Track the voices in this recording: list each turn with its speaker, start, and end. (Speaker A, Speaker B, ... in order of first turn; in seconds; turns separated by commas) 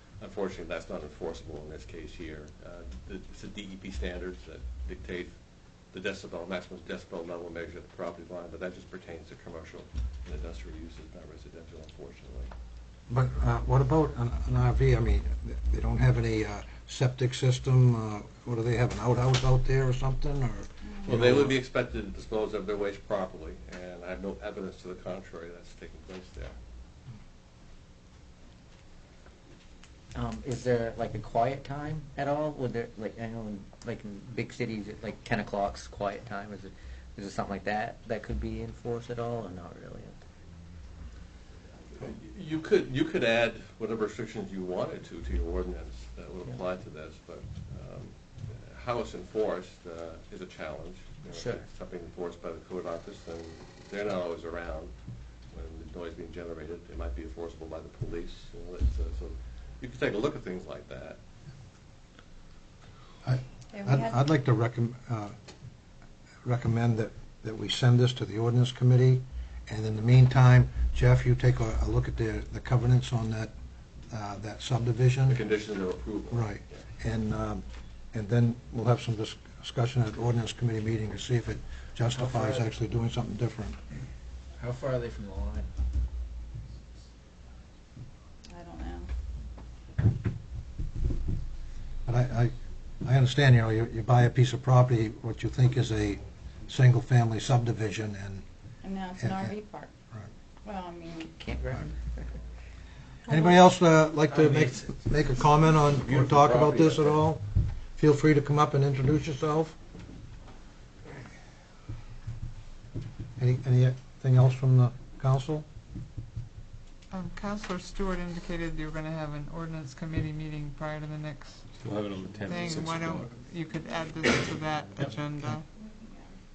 Speaker A: 0.2-5.4, Speaker A: 5.9-12.5, Speaker B: 13.1-21.6, Speaker A: 21.0-26.6, Speaker C: 30.1-40.2, Speaker A: 41.9-54.9, Speaker C: 51.2-51.6, Speaker A: 55.5-61.2, Speaker B: 63.2-65.3, Speaker D: 63.7-64.2, Speaker B: 66.4-73.5, Speaker B: 74.1-75.4, Speaker A: 75.3-76.8, Speaker B: 76.3-83.8, Speaker E: 82.1-82.8, Speaker E: 84.6-85.7, Speaker D: 88.5-89.1, Speaker B: 92.1-98.5, Speaker D: 98.8-99.9, Speaker B: 99.2-99.6, Speaker D: 100.6-101.6, Speaker C: 101.4-102.3, Speaker B: 103.3-109.8, Speaker D: 103.3-103.6, Speaker E: 104.3-107.2, Speaker B: 113.4-115.7, Speaker F: 117.1-121.7, Speaker G: 121.7-123.4, Speaker F: 122.4-125.7, Speaker G: 124.2-125.1, Speaker D: 125.8-126.3